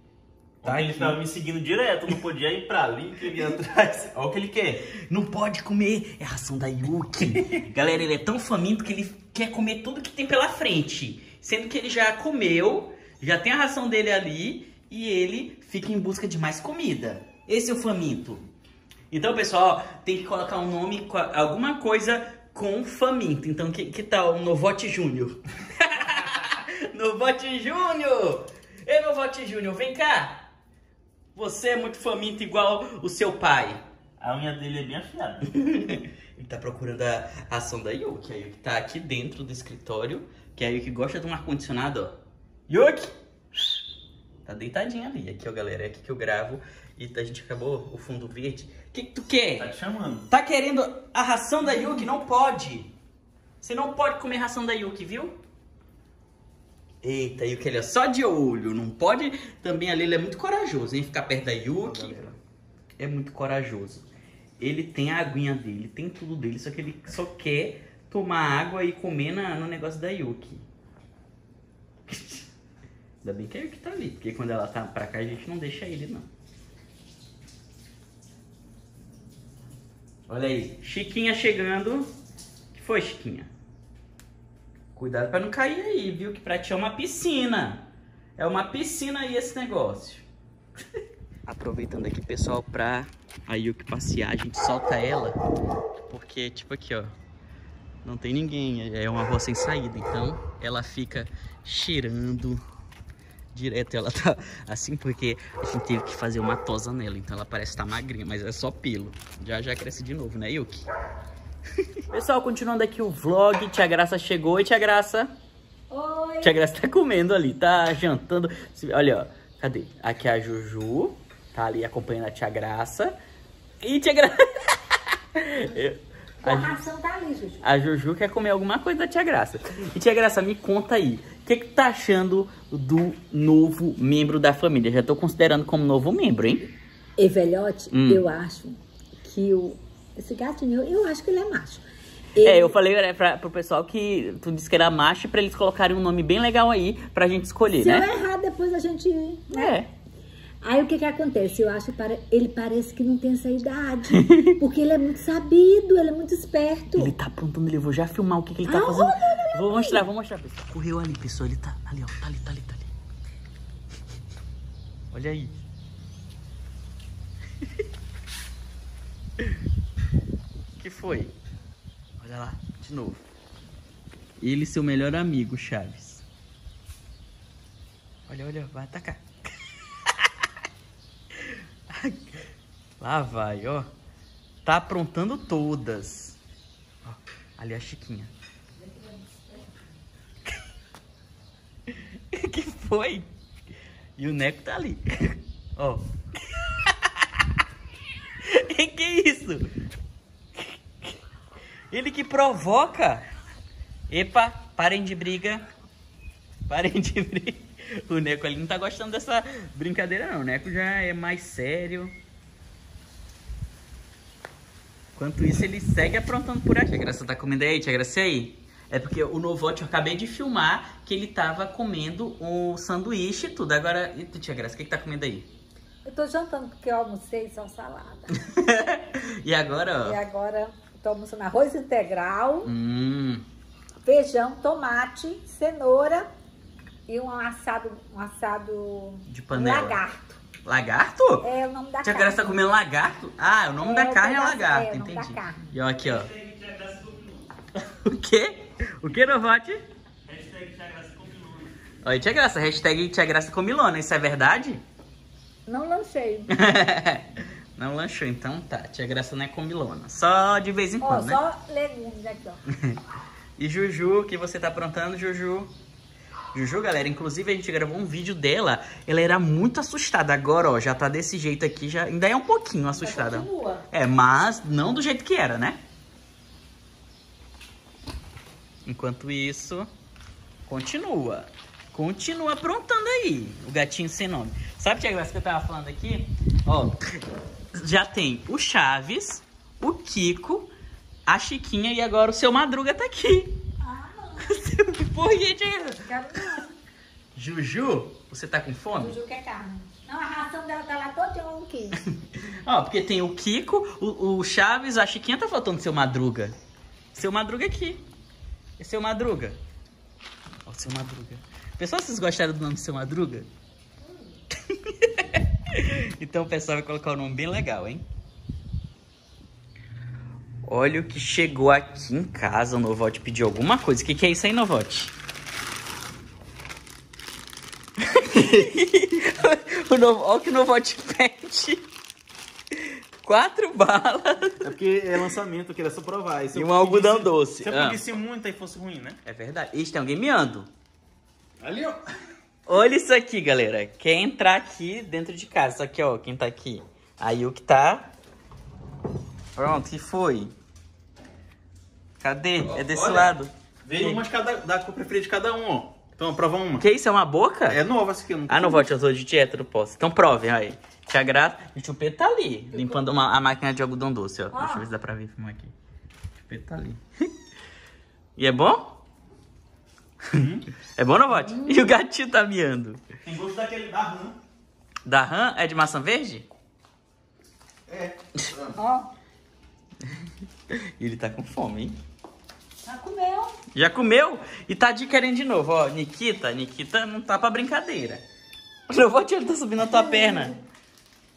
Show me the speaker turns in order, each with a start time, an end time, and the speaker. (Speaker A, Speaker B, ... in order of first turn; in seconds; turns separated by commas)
Speaker A: 0.6-4.9, Speaker B: 0.6-1.2, Speaker B: 5.0-18.4, Speaker B: 19.1-30.4, Speaker B: 31.3-33.8, Speaker A: 34.2-35.5, Speaker B: 35.5-43.1, Speaker B: 44.4-49.7, Speaker A: 49.6-50.3, Speaker B: 50.3-52.9, Speaker B: 53.6-55.4, Speaker B: 57.0-62.2, Speaker A: 61.8-62.4, Speaker B: 63.0-64.1, Speaker B: 64.6-70.7, Speaker B: 72.1-72.4, Speaker B: 73.2-76.3, Speaker B: 80.3-82.1, Speaker B: 82.7-83.5, Speaker B: 84.9-87.8, Speaker B: 88.4-90.2, Speaker B: 91.5-95.4, Speaker B: 96.1-97.1, Speaker B: 98.0-102.6, Speaker B: 103.5-110.8, Speaker B: 112.1-115.3, Speaker C: 115.9-116.6, Speaker B: 116.4-123.2, Speaker B: 123.8-126.8, Speaker C: 126.4-127.6, Speaker B: 127.6-136.7, Speaker C: 137.2-141.8, Speaker B: 137.9-138.2, Speaker C: 142.3-142.7, Speaker B: 142.4-148.1, Speaker C: 147.8-149.8, Speaker B: 149.5-149.9, Speaker C: 150.6-157.2, Speaker B: 154.1-154.6, Speaker B: 156.9-162.9, Speaker C: 158.6-160.1, Speaker B: 165.1-165.5, Speaker B: 170.8-171.3, Speaker B: 172.2-173.2, Speaker B: 174.4-176.2, Speaker B: 178.3-179.2, Speaker B: 181.5-182.4, Speaker B: 183.0-183.9, Speaker B: 184.6-186.4, Speaker B: 187.0-188.3, Speaker B: 191.9-193.3, Speaker B: 194.2-197.4, Speaker B: 198.4-199.7, Speaker B: 200.6-201.1, Speaker B: 201.9-203.2, Speaker B: 204.1-205.7, Speaker B: 206.7-212.1, Speaker B: 215.1-225.5, Speaker C: 226.0-228.4, Speaker B: 228.3-230.2, Speaker C: 230.0-232.7, Speaker B: 232.6-233.4, Speaker C: 234.0-236.3, Speaker C: 237.1-240.4, Speaker B: 239.3-240.0, Speaker B: 240.6-241.5, Speaker C: 241.4-242.5, Speaker B: 242.0-246.3, Speaker C: 243.8-245.7, Speaker A: 246.4-247.4, Speaker B: 247.8-249.8, Speaker A: 250.3-251.7, Speaker B: 252.0-254.8, Speaker C: 255.7-256.5, Speaker B: 256.5-261.4, Speaker C: 261.0-262.6, Speaker B: 263.6-265.7, Speaker B: 266.5-275.8, Speaker C: 272.9-273.9, Speaker B: 278.8-279.9, Speaker B: 280.6-287.2, Speaker B: 287.7-290.7, Speaker B: 291.2-293.6, Speaker C: 293.8-294.6, Speaker B: 294.4-296.6, Speaker C: 296.1-296.7, Speaker B: 297.3-299.2, Speaker C: 299.0-302.0, Speaker B: 302.4-306.6, Speaker B: 307.1-308.0, Speaker B: 308.8-309.6, Speaker B: 310.6-313.5, Speaker B: 314.7-318.1, Speaker B: 320.6-325.1, Speaker B: 328.0-331.8, Speaker B: 333.2-334.7, Speaker A: 334.6-339.2, Speaker B: 336.5-338.0, Speaker B: 339.2-340.7, Speaker A: 341.6-342.0, Speaker B: 342.7-348.1, Speaker B: 349.6-350.5, Speaker B: 352.2-354.2, Speaker A: 352.7-353.3, Speaker A: 353.8-356.8, Speaker B: 356.8-357.8, Speaker A: 357.7-358.9, Speaker B: 358.5-365.7, Speaker C: 362.7-363.0, Speaker C: 364.5-364.9, Speaker B: 366.4-367.0, Speaker B: 368.4-369.0, Speaker A: 370.3-370.6, Speaker B: 370.9-373.0, Speaker A: 373.2-374.4, Speaker B: 375.1-376.5, Speaker A: 377.9-378.8, Speaker C: 378.8-379.1, Speaker B: 381.0-382.0, Speaker C: 382.8-383.6, Speaker B: 383.7-388.2, Speaker B: 388.9-390.6